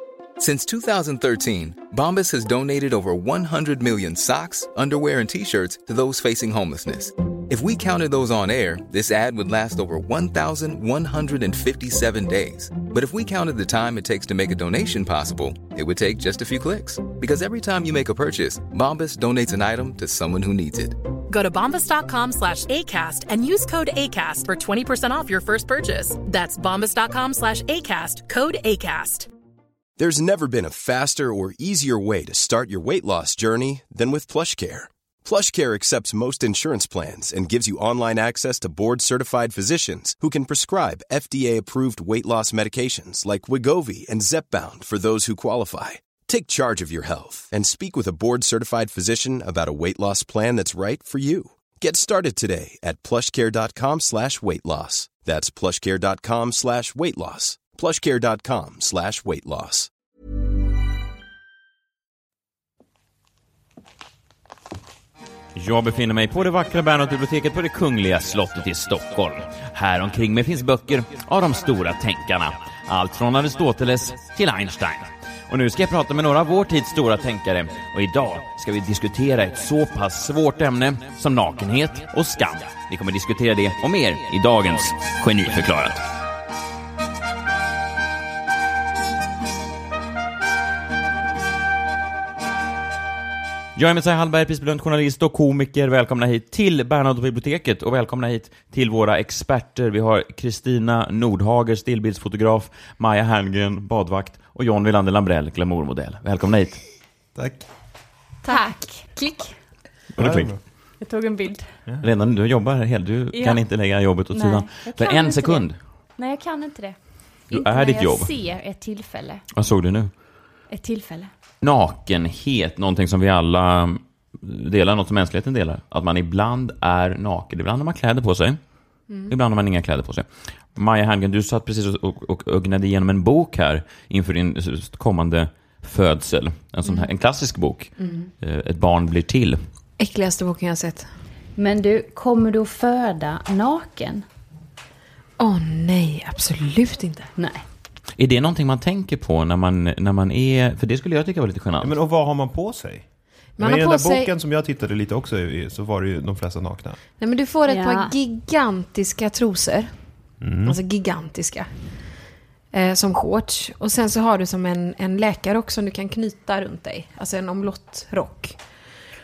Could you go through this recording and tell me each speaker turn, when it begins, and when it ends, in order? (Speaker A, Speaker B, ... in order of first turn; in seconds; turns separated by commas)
Speaker A: 0.4-21.0, Speaker B: 21.3-29.3, Speaker C: 30.0-59.9, Speaker D: 65.5-86.0, Speaker D: 93.8-106.8, Speaker E: 107.3-107.7, Speaker F: 108.5-108.8, Speaker G: 108.5-109.5, Speaker D: 110.2-110.5, Speaker E: 110.2-110.6, Speaker G: 111.0-111.7, Speaker D: 112.0-115.8, Speaker G: 113.3-113.6, Speaker G: 114.3-117.0, Speaker G: 117.5-119.4, Speaker D: 117.5-118.3, Speaker D: 119.5-120.1, Speaker G: 120.7-121.3, Speaker D: 121.6-128.6, Speaker F: 129.1-129.3, Speaker D: 129.3-139.6, Speaker F: 136.8-137.1, Speaker F: 138.0-138.3, Speaker F: 140.0-141.1, Speaker G: 141.6-144.2, Speaker F: 145.4-147.3, Speaker G: 147.4-147.6, Speaker D: 148.2-152.0, Speaker E: 151.8-153.1, Speaker F: 153.6-154.3, Speaker E: 153.6-157.0, Speaker F: 157.2-159.9, Speaker G: 157.7-158.1, Speaker E: 160.4-160.8, Speaker F: 160.7-161.7, Speaker F: 162.7-168.6